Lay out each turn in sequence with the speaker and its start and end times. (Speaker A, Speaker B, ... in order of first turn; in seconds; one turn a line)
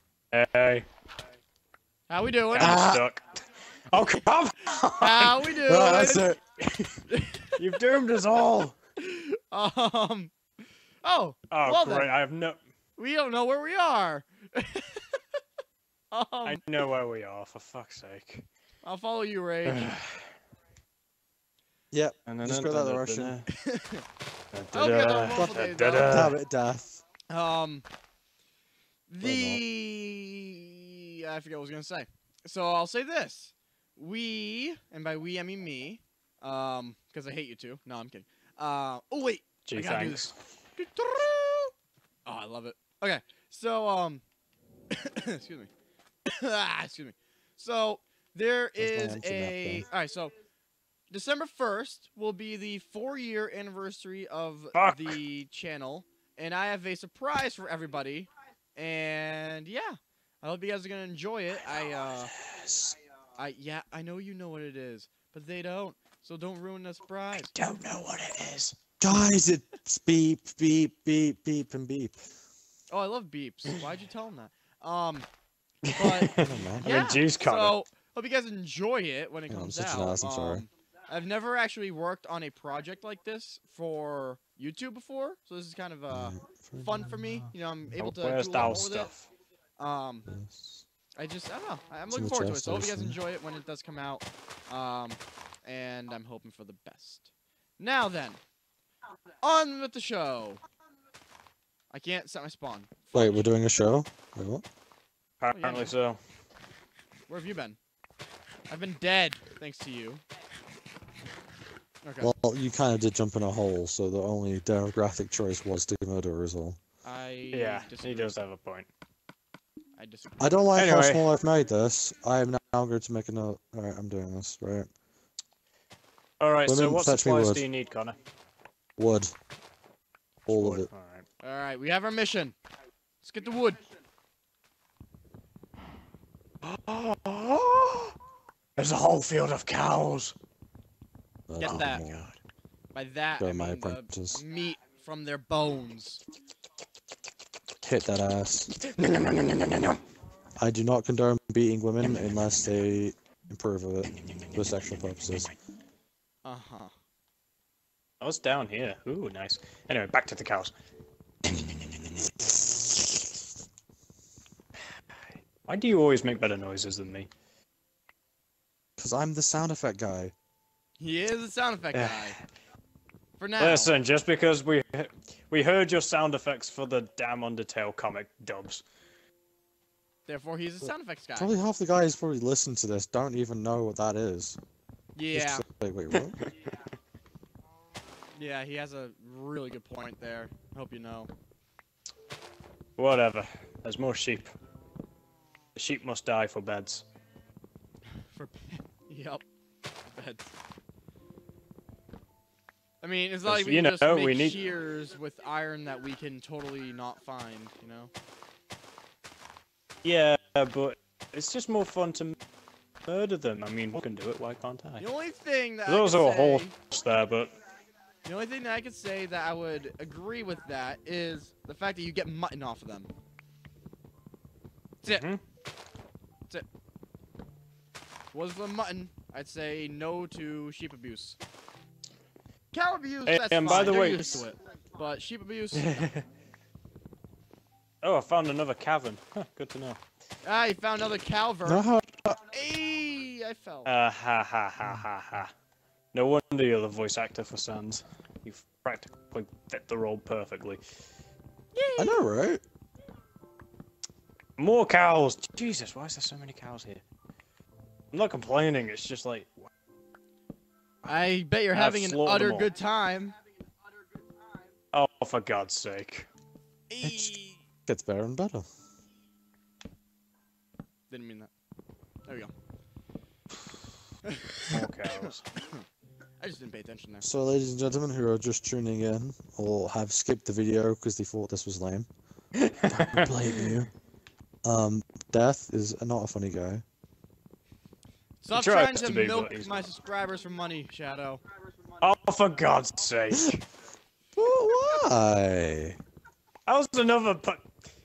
Speaker A: 0.3-0.8
Speaker B: 2.1-2.8
Speaker A: 2.5-3.2
Speaker C: 2.6-3.0
Speaker A: 3.9-5.5
Speaker B: 5.0-6.3
Speaker C: 5.6-6.6
Speaker B: 7.1-7.5
Speaker A: 7.6-8.8
Speaker B: 9.0-10.3
Speaker B: 11.0-12.1
Speaker A: 11.5-12.6
Speaker B: 13.0-15.2
Speaker B: 16.1-16.6
Speaker A: 16.4-18.5
Speaker B: 18.8-20.0
Speaker A: 19.6-20.3
Speaker C: 21.9-23.4
Speaker A: 22.3-23.5
Speaker B: 23.5-24.0
Speaker A: 24.5-26.3
Speaker B: 24.7-26.3
Speaker C: 25.3-27.0
Speaker B: 27.3-27.8
Speaker B: 29.1-41.7
Speaker C: 29.2-29.6
Speaker A: 39.6-40.3
Speaker B: 42.2-44.2
Speaker B: 44.9-45.7
Speaker B: 46.2-50.3
Speaker C: 48.8-49.9
Speaker B: 51.1-62.3
Speaker A: 54.7-55.2
Speaker A: 62.0-62.9
Speaker B: 63.4-67.5
Speaker A: 67.3-68.8
Speaker C: 69.0-72.2
Speaker B: 72.9-75.3
Speaker A: 75.8-77.7
Speaker B: 76.0-89.1
Speaker C: 76.3-76.9
Speaker C: 79.5-80.7
Speaker C: 86.1-87.5
Speaker A: 88.0-89.3
Speaker C: 88.6-88.8
Speaker B: 89.8-90.3
Speaker C: 90.3-90.8
Speaker B: 91.2-98.4
Speaker C: 92.1-93.2
Speaker B: 99.4-100.6
Speaker B: 101.9-103.5
Speaker C: 103.1-104.6
Speaker A: 105.4-106.2
Speaker B: 105.5-105.9
Speaker B: 107.3-107.8
Speaker B: 108.7-110.2
Speaker B: 112.0-112.3
Speaker C: 112.2-116.8
Speaker B: 117.0-118.3
Speaker A: 117.5-118.9
Speaker B: 120.0-120.7
Speaker C: 120.4-124.9
Speaker A: 120.7-121.3
Speaker A: 126.4-128.2
Speaker C: 126.7-127.6
Speaker C: 129.0-129.3
Speaker C: 130.5-130.9
Speaker A: 130.5-131.2
Speaker B: 131.4-132.5
Speaker B: 133.2-133.8
Speaker A: 136.6-138.1
Speaker A: 138.8-140.3
Speaker C: 141.5-142.3
Speaker B: 141.6-142.0
Speaker A: 141.6-142.3
Speaker B: 142.9-146.2
Speaker C: 143.4-144.4
Speaker C: 147.8-148.7
Speaker A: 148.8-150.0
Speaker C: 150.6-155.5
Speaker B: 156.4-156.9
Speaker A: 158.2-160.7
Speaker A: 161.5-163.0
Speaker A: 165.6-167.3
Speaker C: 169.0-170.3
Speaker B: 171.0-172.3
Speaker A: 171.9-172.3
Speaker B: 173.4-173.9
Speaker A: 173.6-178.8
Speaker B: 180.2-181.5
Speaker C: 180.8-184.6
Speaker B: 185.1-185.6
Speaker C: 185.3-186.4
Speaker A: 186.1-186.5
Speaker B: 188.3-191.3
Speaker A: 193.0-194.5
Speaker A: 195.7-197.0
Speaker B: 198.2-199.4
Speaker B: 200.0-200.5
Speaker B: 203.0-208.1
Speaker A: 203.4-204.6
Speaker A: 210.0-212.3
Speaker A: 213.1-215.0
Speaker B: 215.0-216.7
Speaker A: 215.8-217.5
Speaker B: 218.2-223.1
Speaker B: 225.0-225.3
Speaker A: 225.0-225.4
Speaker B: 228.3-231.4
Speaker B: 232.7-236.0
Speaker A: 233.2-234.5
Speaker A: 235.7-236.2
Speaker A: 238.0-240.0
Speaker B: 240.4-241.8
Speaker C: 241.6-242.4
Speaker B: 242.4-243.9
Speaker A: 243.8-245.5
Speaker A: 246.1-250.8
Speaker B: 251.7-252.3
Speaker C: 252.0-252.6
Speaker A: 254.6-257.0
Speaker A: 258.1-259.7
Speaker B: 261.0-263.4
Speaker A: 261.7-262.7
Speaker A: 264.9-266.3
Speaker B: 266.9-267.6
Speaker C: 267.9-268.6
Speaker B: 271.1-271.5
Speaker B: 272.2-272.5
Speaker B: 274.3-275.9
Speaker A: 274.7-275.4
Speaker B: 276.4-277.2
Speaker C: 277.2-282.1
Speaker A: 282.6-283.7
Speaker C: 282.9-283.9
Speaker C: 284.6-286.8
Speaker B: 288.4-291.4
Speaker A: 288.5-289.9
Speaker A: 292.0-293.6
Speaker C: 294.4-296.0
Speaker A: 296.7-297.7